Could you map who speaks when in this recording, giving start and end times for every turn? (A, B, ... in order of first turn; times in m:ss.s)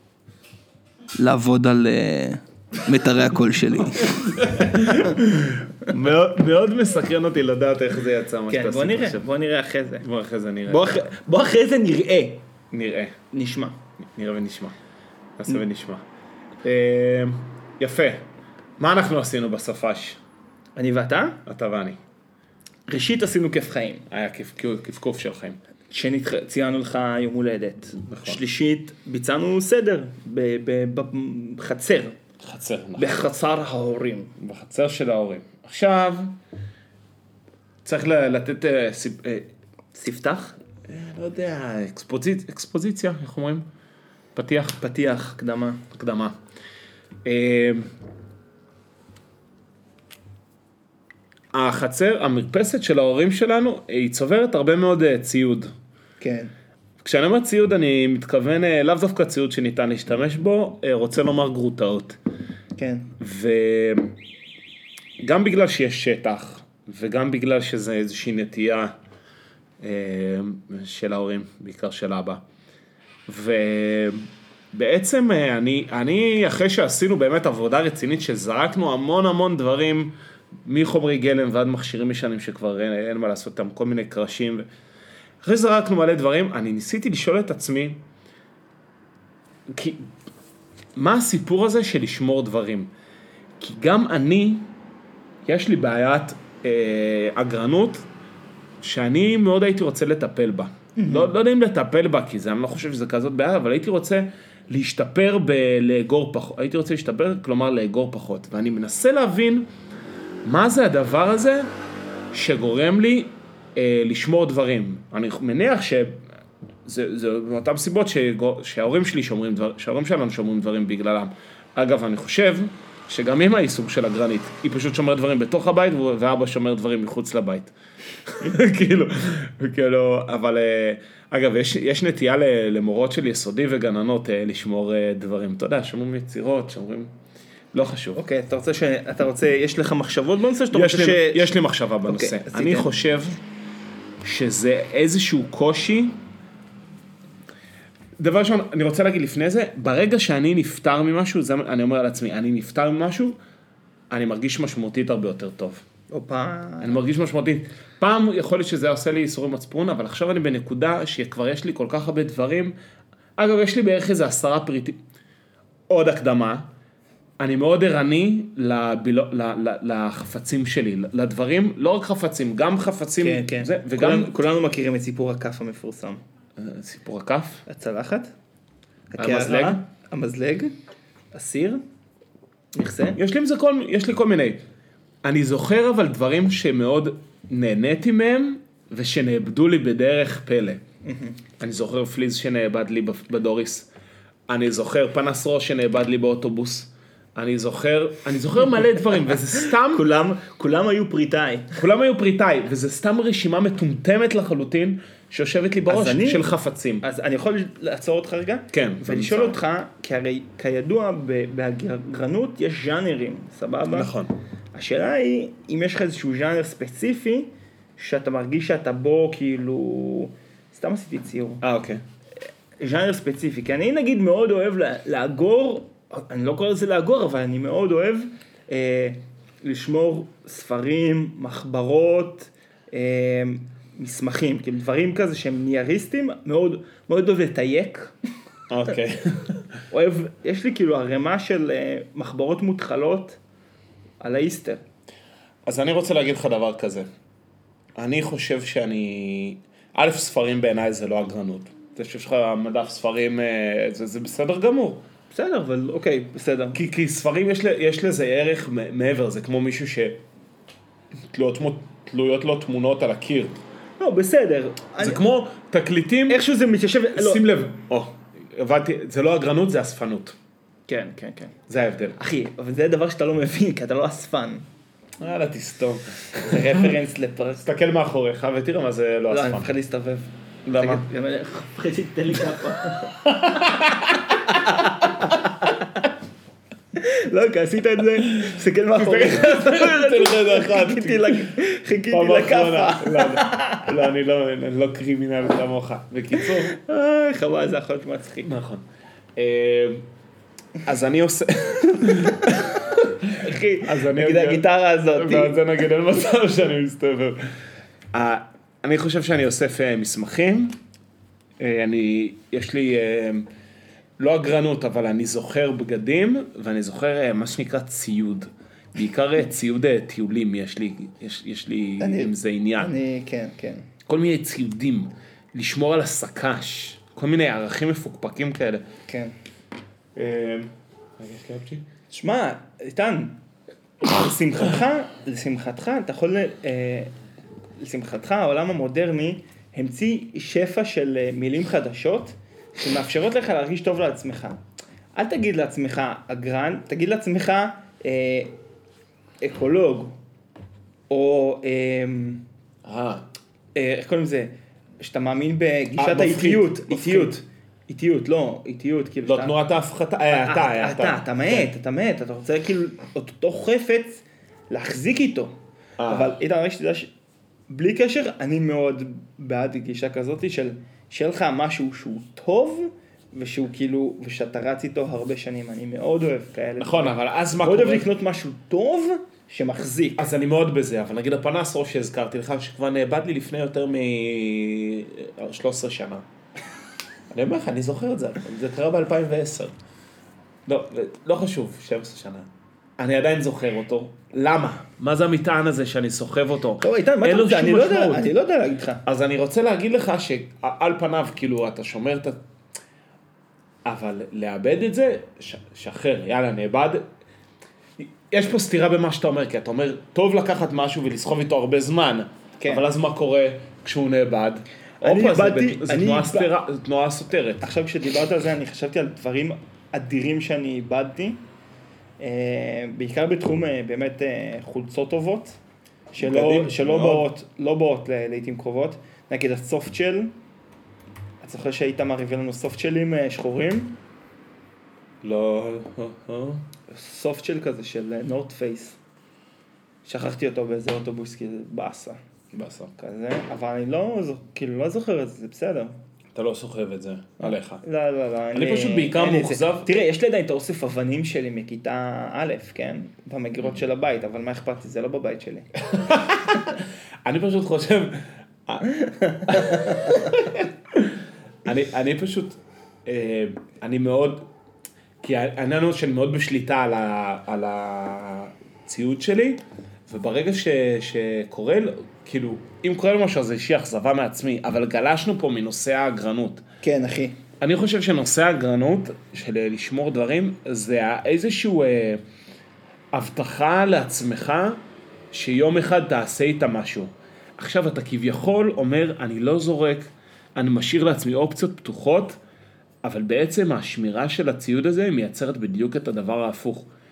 0:01.2-0:05.2 A
0:04.0-0:09.3 B
0:08.5-0:10.0 A
0:10.0-0:11.0 B
0:10.7-0:12.4 A
0:12.7-0:13.2 B
0:13.3-0:13.8 A
0:14.0-0:14.8 B
0:15.4-0:16.0 B
0:16.6-0:18.2 B
0:18.8-0:20.2 B
0:20.8-0:21.4 A
0:21.5-0:22.0 B
0:22.9-0:24.1 A
0:24.1-0:25.6 B
0:25.9-0:32.2 A
0:28.0-0:28.4 B
0:32.4-0:33.3 B
0:33.0-0:34.3 A
0:34.4-0:36.4 B
0:37.8-0:39.5 B
0:39.9-0:40.6 A
0:40.9-0:43.7 B
0:44.4-0:44.8 B
0:44.8-0:45.8 A
0:45.9-0:46.4 B
0:47.2-0:47.9 B
0:51.5-0:55.7 B
0:56.2-0:56.5 A
0:57.0-1:02.2 B
1:02.8-1:03.1 A
1:03.2-1:04.2 B
1:05.2-1:08.9 B
1:09.8-1:12.4 B
1:13.3-1:20.1 B
1:20.6-1:24.7 B
1:25.4-1:28.0 B
1:29.7-1:30.1 B
1:31.0-1:32.9 B
1:33.6-1:34.7 B
1:35.4-1:38.1 B
1:38.8-1:49.7 B
1:41.0-1:41.3 A
1:50.4-1:51.7 B
1:52.3-1:56.2 B
1:56.9-2:07.7 B
2:08.2-2:17.1 B
2:17.7-2:18.2 B
2:18.2-2:22.9 A
2:20.7-2:23.4 B
2:24.2-2:26.2 B
2:28.2-2:33.4 B
2:34.1-2:35.8 B
2:36.1-2:37.0 A
2:36.8-2:42.7 B
2:43.4-2:45.0 B
2:45.9-2:46.7 B
2:47.4-2:54.4 B
2:53.2-2:56.2 A
2:56.6-2:57.6 B
2:57.7-2:58.3 A
2:59.1-3:00.7 A
2:59.2-2:59.8 B
3:01.3-3:01.8 A
3:02.7-3:03.2 A
3:03.2-3:04.6 B
3:05.2-3:10.8 B
3:11.0-3:11.4 A
3:11.6-3:13.9 B
3:14.5-3:20.0 B
3:19.3-3:21.8 A
3:21.8-3:27.0 B
3:25.9-3:26.5 A
3:27.0-3:34.1 A
3:28.7-3:29.6 B
3:33.9-3:34.3 B
3:34.7-3:41.6 A
3:41.6-3:42.0 B
3:42.8-3:58.1 A
3:58.7-3:59.8 B
3:59.9-4:03.4 A
4:04.2-4:04.8 A
4:05.7-4:07.1 B
4:08.0-4:15.0 B
4:15.3-4:16.8 A
4:16.7-4:20.2 B
4:21.2-4:23.6 B
4:24.0-4:25.2 A
4:25.0-4:26.4 B
4:26.3-4:27.5 A
4:27.1-4:30.4 B
4:30.9-4:31.6 A
4:31.7-4:32.2 B
4:32.2-4:34.7 A
4:35.2-4:36.9 B
4:36.4-4:37.7 A
4:37.6-4:39.7 B
4:39.3-4:43.3 A
4:40.7-4:41.0 B
4:43.2-4:45.3 B
4:44.4-4:46.1 A
4:46.9-4:53.9 A
4:48.4-4:51.6 B
4:52.1-4:56.8 B
4:56.3-4:58.5 A
4:58.4-4:58.8 B
4:59.4-5:00.0 B
5:00.8-5:07.4 B
5:03.4-5:05.6 A
5:08.1-5:10.8 B
5:11.6-5:13.5 B
5:14.2-5:22.9 B
5:22.0-5:23.9 A
5:24.1-5:28.9 B
5:29.1-5:29.3 A
5:30.2-5:31.8 B
5:32.1-5:33.4 A
5:34.0-5:37.1 A
5:37.8-5:44.6 A
5:45.2-5:48.5 A
5:49.4-5:50.2 A
5:51.1-5:52.4 A
5:52.8-5:53.2 B
5:53.8-5:59.5 A
5:56.0-5:57.4 B
5:59.2-6:01.6 B
6:00.3-6:05.6 A
6:06.0-6:06.4 B
6:06.1-6:07.1 A
6:07.7-6:20.3 A
6:16.8-6:18.1 B
6:20.2-6:26.2 B
6:27.3-6:29.7 B
6:30.7-6:38.3 B
6:36.8-6:39.0 A
6:39.0-6:42.4 B
6:43.8-6:47.0 B
6:48.0-6:57.7 B
6:52.6-6:52.8 A
6:55.0-6:56.5 A
6:57.6-7:01.4 A
7:02.2-7:05.6 A
7:06.1-7:10.3 A
7:06.2-7:07.3 B
7:11.4-7:14.0 A
7:15.2-7:16.6 B
7:16.9-7:19.0 A
7:20.0-7:22.2 A
7:22.5-7:23.0 B
7:23.0-7:25.9 A
7:26.4-7:27.8 B
7:27.4-7:35.7 A
7:28.5-7:29.9 B
7:35.8-7:38.9 B
7:38.8-7:40.4 A
7:39.5-7:44.5 B
7:45.2-7:56.6 B
7:56.8-7:57.4 A
7:57.6-8:02.2 B
8:03.1-8:04.8 B
8:05.3-8:12.4 B
8:13.0-8:16.9 B